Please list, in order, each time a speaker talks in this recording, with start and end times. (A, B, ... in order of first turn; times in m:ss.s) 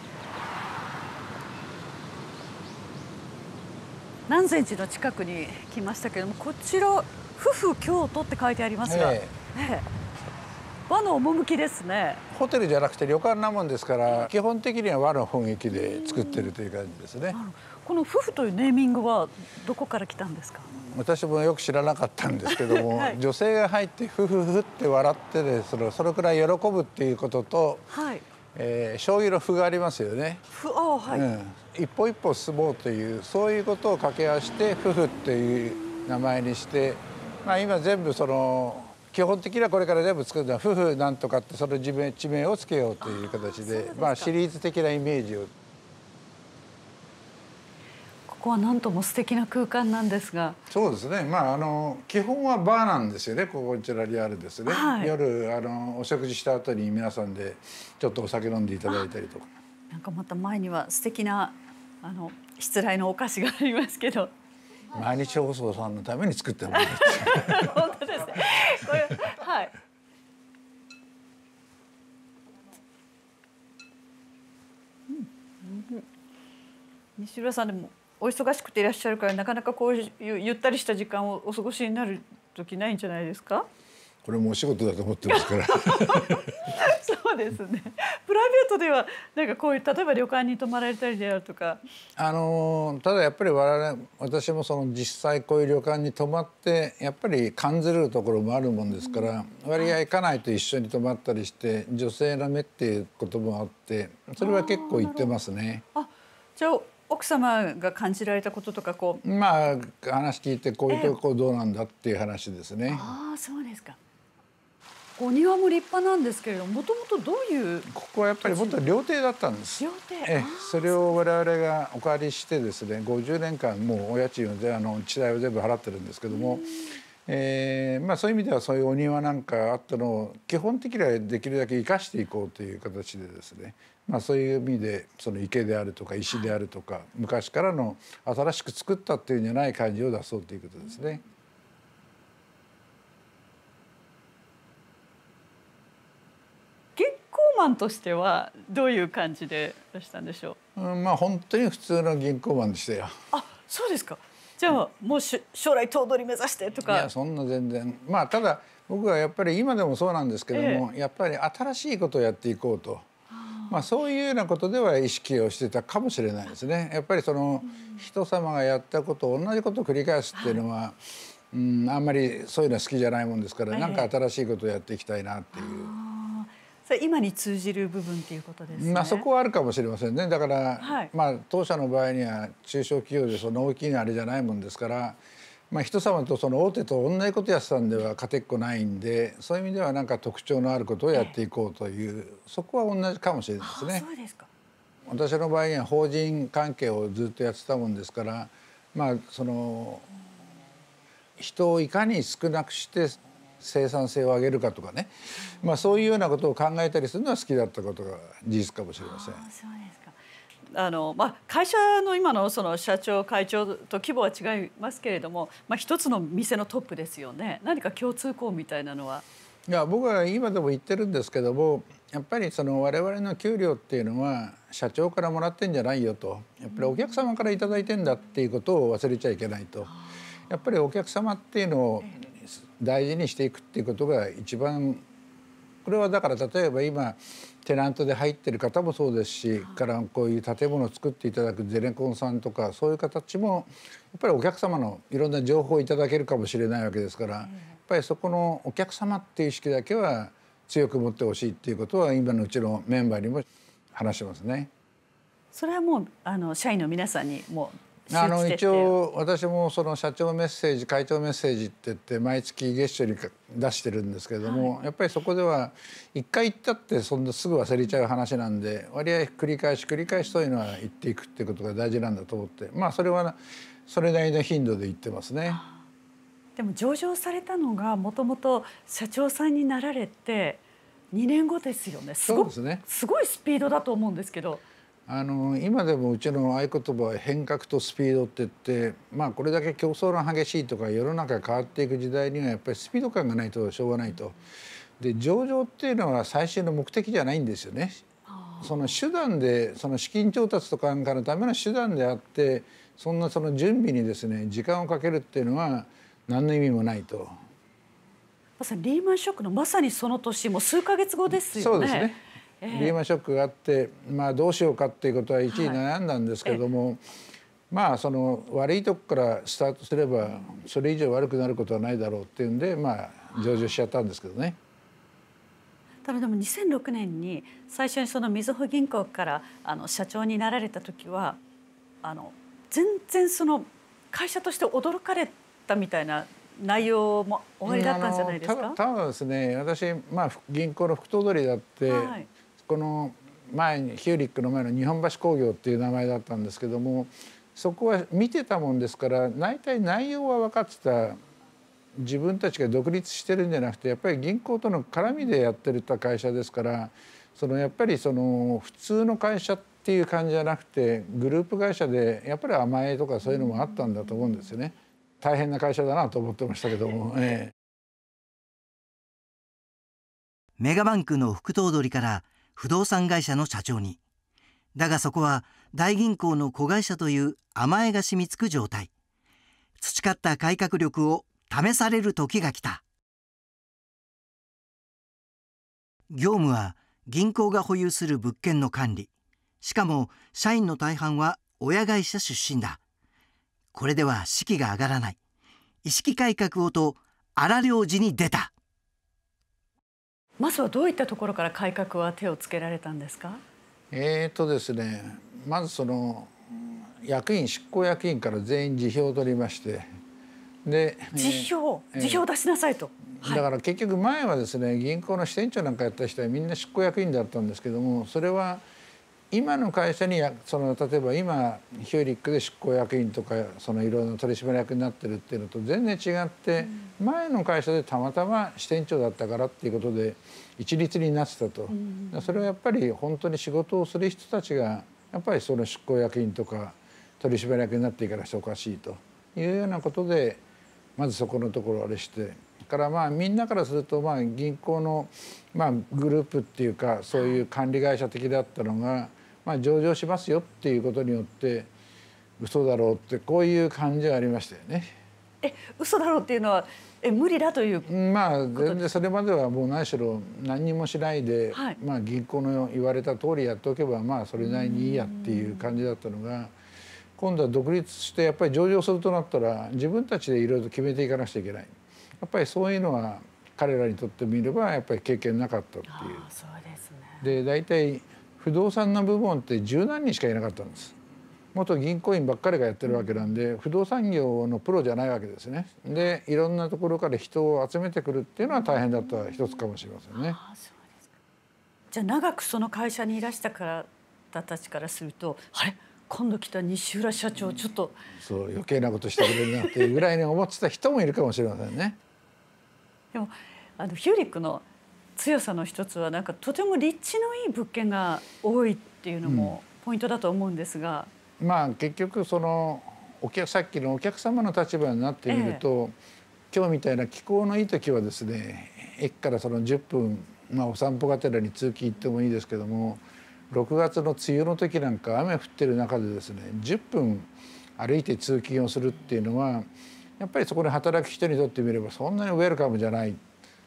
0:04.3-0:09.9 A
0:08.8-0:09.3 B
0:10.9-0:12.2 A
0:12.3-0:17.4 B
0:15.7-0:16.5 A
0:17.3-0:20.7 A
0:20.7-0:27.9 B
0:22.6-0:23.2 A
0:27.9-0:28.2 A
0:28.5-0:30.4 B
0:30.5-0:31.2 A
0:31.1-0:45.5 B
0:43.0-0:44.3 A
0:48.3-0:50.6 A
0:50.7-0:59.5 B
0:54.6-0:55.1 A
0:59.9-1:04.3 A
1:04.9-1:07.9 B
1:06.7-1:09.7 A
1:15.1-1:16.0 A
1:17.2-1:23.7 A
1:24.2-1:26.5 B
1:25.3-1:31.8 A
1:32.2-1:45.8 B
1:44.4-1:45.3 A
1:45.9-1:49.2 A
1:49.2-1:53.1 B
1:50.9-1:51.2 A
1:52.9-1:54.0 A
1:55.2-1:57.9 A
1:57.9-2:06.7 B
1:58.4-1:58.8 A
1:59.8-2:01.2 A
2:06.3-2:07.0 A
2:07.2-2:21.2 B
2:27.0-2:30.6 A
2:30.8-2:33.1 B
2:33.3-2:37.1 A
2:36.9-2:43.1 B
2:40.5-2:40.8 A
2:43.3-2:43.8 A
2:43.7-2:55.9 B
2:50.3-2:50.6 A
2:53.7-2:54.1 A
2:55.5-2:59.2 A
2:58.7-3:05.2 B
3:00.8-3:01.1 A
3:05.7-3:14.0 B
3:13.6-3:14.5 A
3:15.1-3:20.1 B
3:21.4-3:29.4 B
3:29.0-3:30.2 A
3:30.7-3:39.2 A
3:39.7-3:49.9 B
3:50.5-3:55.0 B
3:55.8-4:14.7 B
4:15.5-4:19.0 A
4:18.1-4:35.6 B
4:24.4-4:24.7 A
4:35.5-4:35.8 A
4:36.6-4:44.6 A
4:42.2-4:42.8 B
4:45.1-4:54.4 B
4:55.0-4:58.0 B
4:58.3-4:58.7 A
4:58.6-5:07.3 B
5:08.6-5:12.9 A
5:11.5-5:17.0 B
5:15.5-5:15.8 A
5:17.7-5:24.6 B
5:26.0-5:31.4 A
5:32.0-5:38.8 A
5:37.6-5:51.2 B
5:41.9-5:42.3 A
5:52.0-6:07.5 B
6:10.6-6:14.0 C
6:14.7-6:18.9 C
6:19.8-6:22.8 C
6:26.1-6:29.1 C
6:29.6-6:32.8 C
6:33.7-6:35.2 C
6:35.8-6:38.5 C
6:40.4-6:43.4 A
6:43.9-6:49.8 B
6:50.6-6:52.2 B
6:51.2-6:53.4 A
6:53.2-6:58.6 B
6:59.3-7:20.4 B
7:11.8-7:12.3 A
7:21.0-7:31.7 B
7:27.1-7:27.4 A
7:32.4-7:34.9 B
7:35.4-7:37.9 A
7:37.8-7:46.5 B
7:38.5-7:38.9 A
7:44.4-7:45.7 A
7:47.2-7:56.2 B
7:55.9-7:57.2 A
7:57.2-8:00.9 B
8:01.5-8:10.4 B
8:10.1-8:11.1 A
8:11.9-8:18.0 A
8:18.1-8:22.0 B
8:19.4-8:19.7 A
8:23.1-8:24.6 A
8:25.2-8:31.1 A
8:29.2-8:29.5 B
8:31.4-8:35.9 B
8:35.3-8:35.6 A
8:36.5-8:49.7 B
8:50.2-8:53.2 B